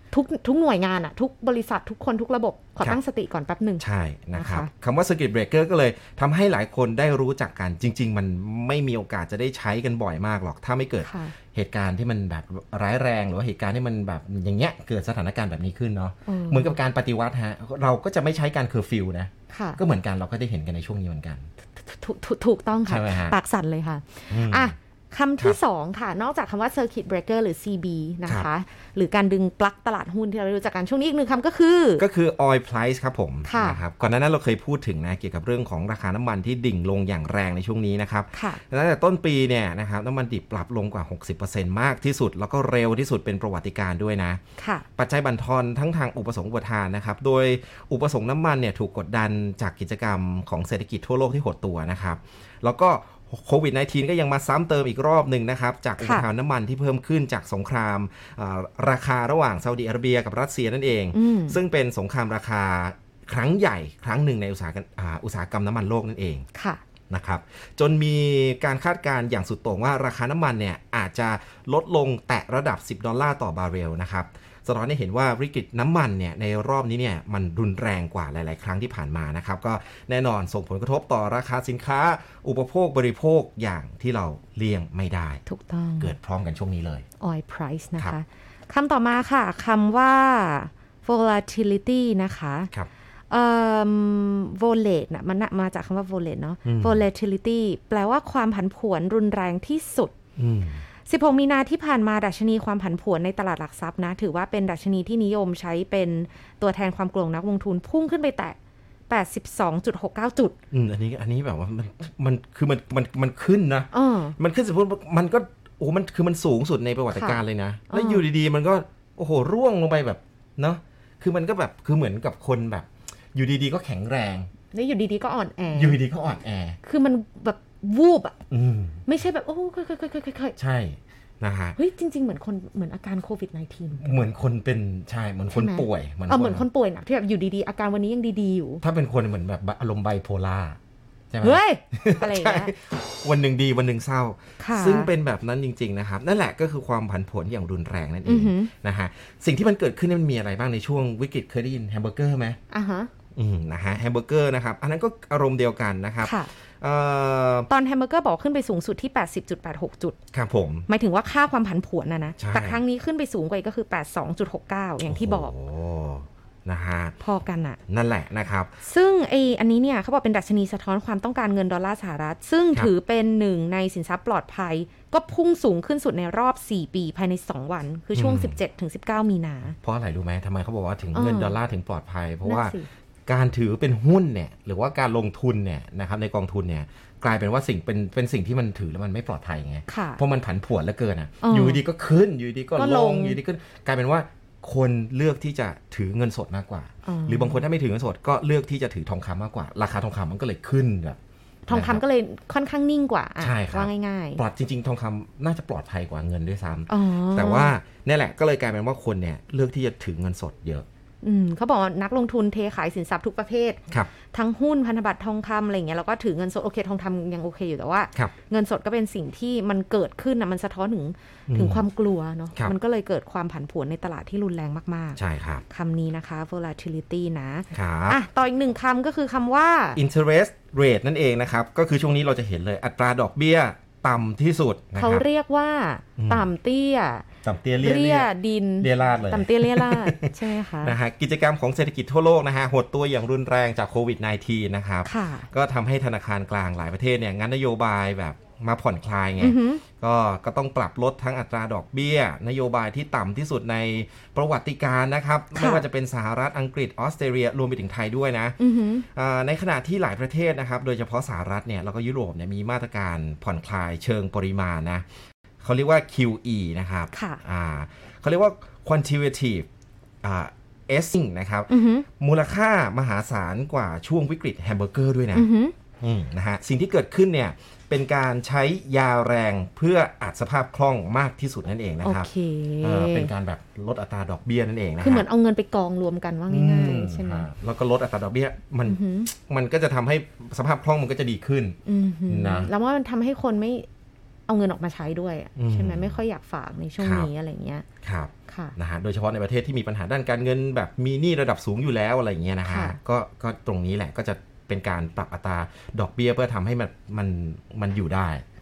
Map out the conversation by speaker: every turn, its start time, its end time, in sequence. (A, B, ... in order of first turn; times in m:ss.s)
0:00.1-0:04.7 A
0:03.8-0:21.5 B
0:11.0-0:11.3 A
0:16.3-0:16.8 A
0:19.5-0:19.8 A
0:21.8-0:32.1 A
0:22.8-0:23.4 B
0:24.3-0:24.7 B
0:32.0-0:44.4 B
0:33.4-0:33.8 A
0:38.3-0:38.6 A
0:44.6-0:44.9 A
0:45.0-1:06.5 B
0:56.0-0:56.3 A
1:01.1-1:01.6 A
1:06.5-1:06.8 A
1:07.1-1:25.4 B
1:25.5-1:26.1 A
1:26.0-1:27.0 B
1:27.2-1:32.7 A
1:33.3-1:40.2 A
1:36.6-1:37.0 B
1:40.4-1:40.8 B
1:41.1-1:48.6 A
1:49.1-1:50.6 A
1:50.7-2:04.5 B
1:53.9-1:54.4 A
1:57.1-1:58.2 A
2:04.7-2:06.0 A
2:05.7-2:06.8 B
2:06.8-2:08.4 A
2:08.5-2:09.0 B
2:09.1-2:10.6 A
2:10.6-2:11.8 B
2:11.8-2:14.2 A
2:14.0-2:16.6 B
2:15.5-2:18.8 A
2:18.8-2:20.8 B
2:21.3-2:32.6 B
2:21.4-2:22.7 A
2:24.6-2:25.1 A
2:28.2-2:28.7 A
2:32.7-2:33.1 A
2:33.4-2:37.7 B
2:36.2-2:36.5 A
2:37.7-2:40.2 A
2:40.3-2:40.9 B
2:40.9-2:45.5 A
2:42.4-2:42.8 B
2:45.1-2:47.2 B
2:47.2-2:47.8 A
2:47.9-2:48.8 B
2:48.8-2:59.8 A
2:58.2-2:58.6 B
2:59.8-3:21.2 B
3:01.1-3:01.6 A
3:02.4-3:02.9 A
3:09.9-3:10.2 A
3:11.4-3:11.8 A
3:12.8-3:13.4 A
3:17.0-3:17.6 A
3:21.7-3:24.4 A
3:21.7-3:22.0 B
3:23.4-3:30.9 B
3:26.9-3:27.7 A
3:31.2-3:50.0 A
3:41.5-3:41.8 B
3:45.2-3:45.6 B
3:47.7-3:48.2 B
3:50.0-3:55.3 B
3:55.0-3:57.3 A
3:56.2-3:56.5 B
3:57.4-4:25.0 B
3:57.8-4:01.0 A
4:05.0-4:05.5 A
4:09.4-4:09.8 A
4:15.6-4:15.8 A
4:18.6-4:19.1 A
4:25.6-4:29.7 B
4:27.1-4:27.4 A
4:30.2-4:35.5 B
4:31.7-4:32.1 A
4:35.3-4:35.7 A
4:36.0-4:42.3 B
4:42.0-4:43.3 A
4:42.8-4:45.3 B
4:45.0-4:47.5 A
4:46.5-4:51.8 B
4:48.8-4:49.3 A
4:51.8-4:53.9 A
4:52.3-4:52.7 B
4:54.5-4:57.8 A
4:55.6-4:56.2 B
4:57.0-4:57.3 B
4:58.0-5:08.4 B
4:58.5-4:58.8 A
5:02.6-5:03.0 A